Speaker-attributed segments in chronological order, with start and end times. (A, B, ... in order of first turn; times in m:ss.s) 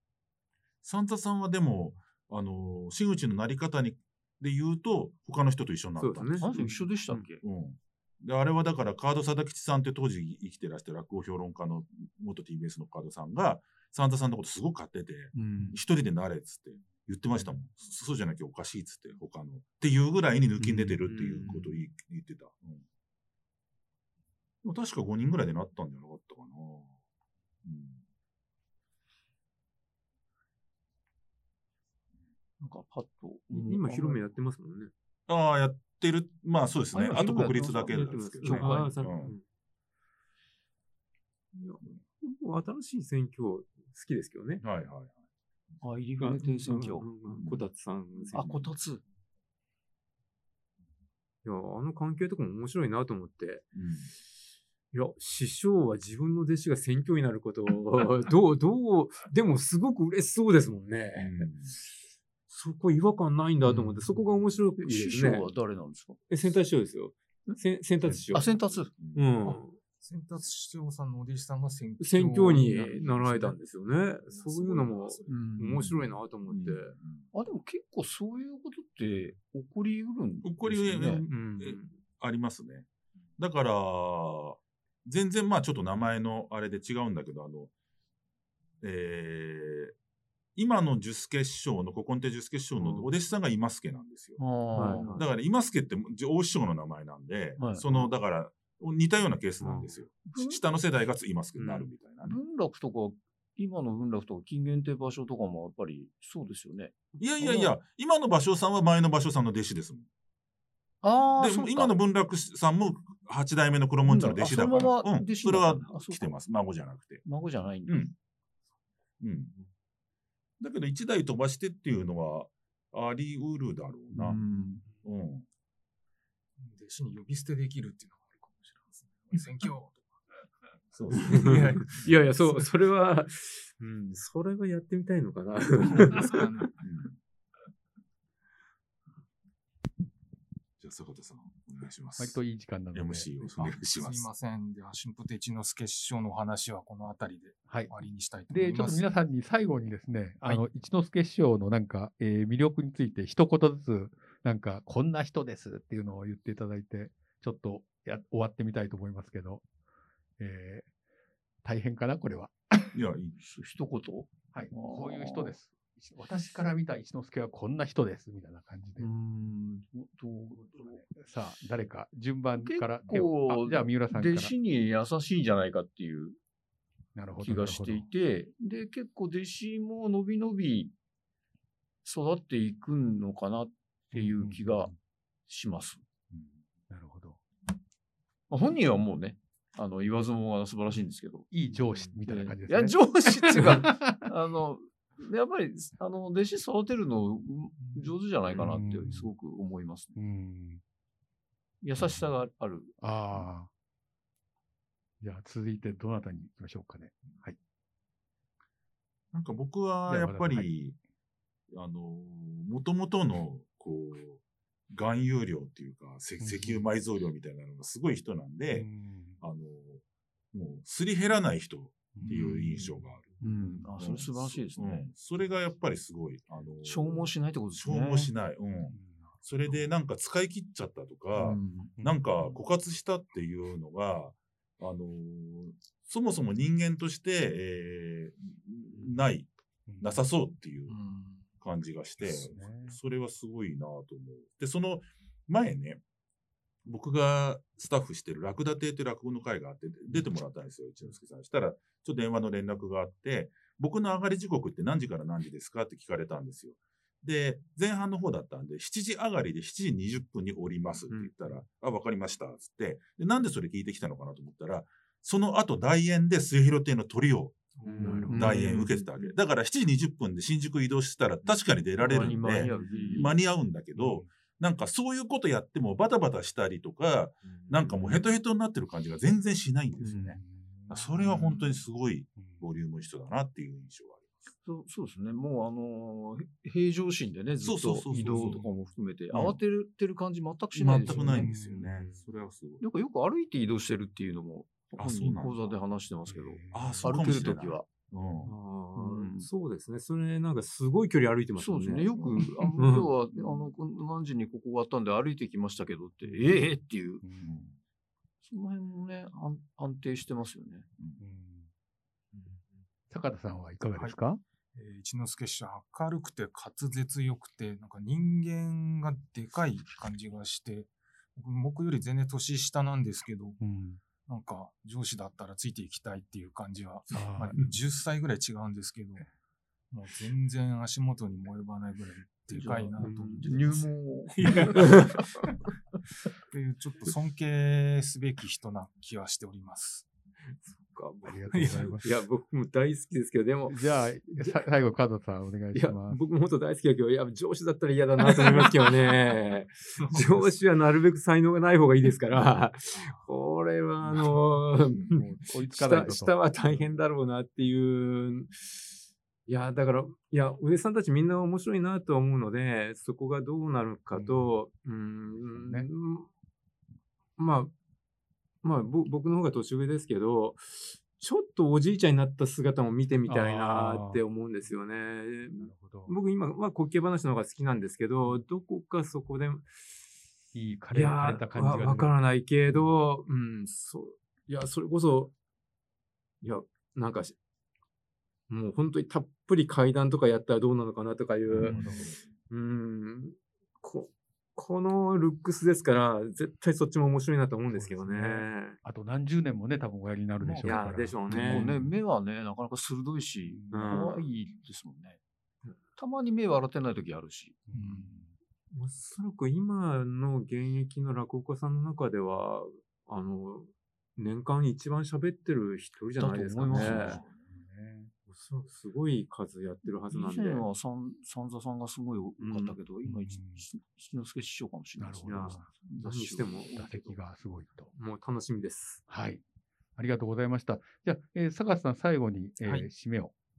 0:00.8-0:06.7 A
0:06.0-0:07.3 B
0:06.4-0:07.4 C
0:07.4-0:22.8 A
0:15.3-0:15.8 C
0:20.6-0:21.0 C
0:21.0-0:21.7 B
0:24.6-0:26.9 A
0:27.6-0:28.0 A
0:32.6-0:34.3 C
0:33.5-0:34.9 B
0:35.3-0:39.4 A
0:36.9-0:39.0 C
0:37.1-0:39.4 B
0:41.5-0:44.6 B
0:44.6-0:45.1 A
0:45.8-0:47.1 C
0:46.2-0:48.6 B
0:47.3-0:47.6 A
0:48.1-0:48.7 A
0:48.3-0:49.0 C
0:51.4-0:53.7 B
0:53.7-0:54.1 A
0:54.9-1:01.9 B
1:01.2-1:01.7 A
1:02.5-1:05.5 B
1:03.6-1:04.2 C
1:04.8-1:06.2 C
1:06.3-1:08.6 B
1:08.3-1:08.9 C
1:09.0-1:09.4 A
1:09.1-1:09.8 B
1:09.4-1:15.5 D
1:12.0-1:16.9 B
1:15.3-1:16.2 C
1:16.5-1:17.3 A
1:17.3-1:21.2 C
1:20.4-1:22.9 A
1:21.2-1:22.0 B
1:23.4-1:27.7 A
1:28.8-1:29.9 A
1:30.6-1:42.4 A
1:32.8-1:33.1 B
1:34.4-1:35.2 C
1:34.7-1:35.3 B
1:37.6-1:38.1 C
1:39.6-1:40.0 B
1:40.3-1:40.6 C
1:41.6-1:41.9 B
1:42.2-1:47.7 C
1:47.2-1:50.1 A
1:51.0-1:51.9 C
1:51.4-1:57.2 A
1:54.0-1:56.3 C
1:57.2-1:58.1 C
1:57.9-1:58.1 A
1:59.2-1:59.5 A
2:00.6-2:04.4 A
2:04.1-2:04.8 C
2:05.0-2:05.4 A
2:06.6-2:10.2 D
2:10.9-2:11.9 A
2:11.1-2:12.7 D
2:11.2-2:16.4 B
2:15.9-2:16.8 D
2:16.8-2:17.2 A
2:20.8-2:22.4 A
2:22.2-2:23.3 E
2:22.9-2:24.3 A
2:23.6-2:29.1 D
2:27.7-2:39.6 E
2:40.4-2:40.9 E
2:41.6-2:43.0 E
2:42.9-2:43.4 A
2:43.4-2:45.6 C
2:44.5-2:49.1 E
2:49.0-2:51.0 C
2:50.6-2:54.5 E
2:52.6-2:56.4 C
2:57.1-2:58.1 E
2:57.4-3:00.9 C
3:02.0-3:04.9 C
3:04.1-3:04.9 E
3:05.5-3:06.0 C
3:06.9-3:07.4 E
3:08.5-3:11.5 C
3:11.5-3:14.3 E
3:12.2-3:20.2 C
3:18.6-3:19.3 E
3:20.2-3:20.8 E
3:21.8-3:23.0 C
3:23.0-3:23.7 E
3:25.2-3:27.6 E
3:29.3-3:31.0 A
3:30.1-3:30.7 E
3:31.7-3:38.9 A
3:36.4-3:36.8 E
3:38.7-3:39.4 E
3:39.4-3:43.3 A
3:42.1-3:43.5 E
3:43.4-3:45.1 C
3:44.0-4:01.0 A
3:46.8-3:48.3 C
3:48.9-3:49.9 E
3:51.3-3:51.9 C
3:52.0-3:52.6 E
3:59.9-4:00.2 E
4:01.0-4:01.4 D
4:01.6-4:06.0 A
4:02.2-4:03.0 E
4:06.8-4:27.6 A
4:27.8-4:28.3 D
4:27.8-4:29.1 B
4:28.3-4:28.7 C
4:28.3-4:44.5 A
4:32.0-4:33.4 C
4:32.6-4:33.3 B
4:33.9-4:34.3 E
4:40.0-4:40.4 C
4:40.4-4:41.8 E
4:42.4-4:42.6 E
4:44.6-4:51.5 C
4:47.6-4:48.6 A
4:49.3-4:49.6 A
4:50.8-4:51.4 B
4:50.8-4:52.8 A
4:51.4-4:52.1 E
4:52.8-4:57.9 C
4:55.0-4:55.7 A
4:56.3-4:57.2 E
4:56.7-4:58.5 A
4:58.4-5:02.1 B
4:59.0-4:59.5 C
5:01.6-5:07.2 C
5:02.1-5:02.5 A
5:02.7-5:03.1 B
5:06.2-5:06.6 E
5:07.2-5:07.6 E
5:07.4-5:07.8 A
5:08.4-5:10.9 C
5:11.2-5:11.7 E
5:13.1-5:14.4 E
5:14.7-5:23.6 D
5:23.6-5:24.0 E
5:24.2-5:29.3 D
5:27.1-5:27.6 E
5:29.9-5:35.5 D
5:32.6-5:35.2 C
5:33.0-5:33.5 B
5:34.7-5:35.1 B
5:36.5-5:40.1 D
5:40.6-5:44.6 B
5:41.2-5:42.1 E
5:41.5-5:41.9 D
5:43.7-5:46.2 E
5:45.7-5:58.8 B
5:55.1-5:56.4 E
5:59.5-6:06.3 B
6:04.1-6:04.5 E
6:05.4-6:05.9 E
6:07.4-6:07.7 B
6:08.6-6:20.1 B
6:13.3-6:14.2 E
6:15.6-6:16.1 E
6:20.5-6:22.1 E
6:20.9-6:25.3 B
6:26.4-6:27.3 B
6:28.5-6:31.8 B
6:31.5-6:32.1 E
6:32.5-6:38.8 B
6:37.7-6:41.9 E
6:40.4-6:45.2 C
6:40.6-6:41.6 B
6:43.5-6:44.2 E
6:43.7-6:44.2 B
6:46.0-6:48.1 C
6:47.7-6:48.3 E
6:48.7-6:57.2 B
6:56.2-6:57.2 C
6:56.7-6:58.1 E
6:58.3-7:00.6 B
6:59.8-7:06.6 C
7:02.4-7:02.8 B
7:03.0-7:03.7 E
7:05.0-7:05.7 E
7:05.3-7:07.2 B
7:06.7-7:07.9 E
7:07.9-7:09.0 B
7:09.1-7:09.4 E
7:10.0-7:13.3 E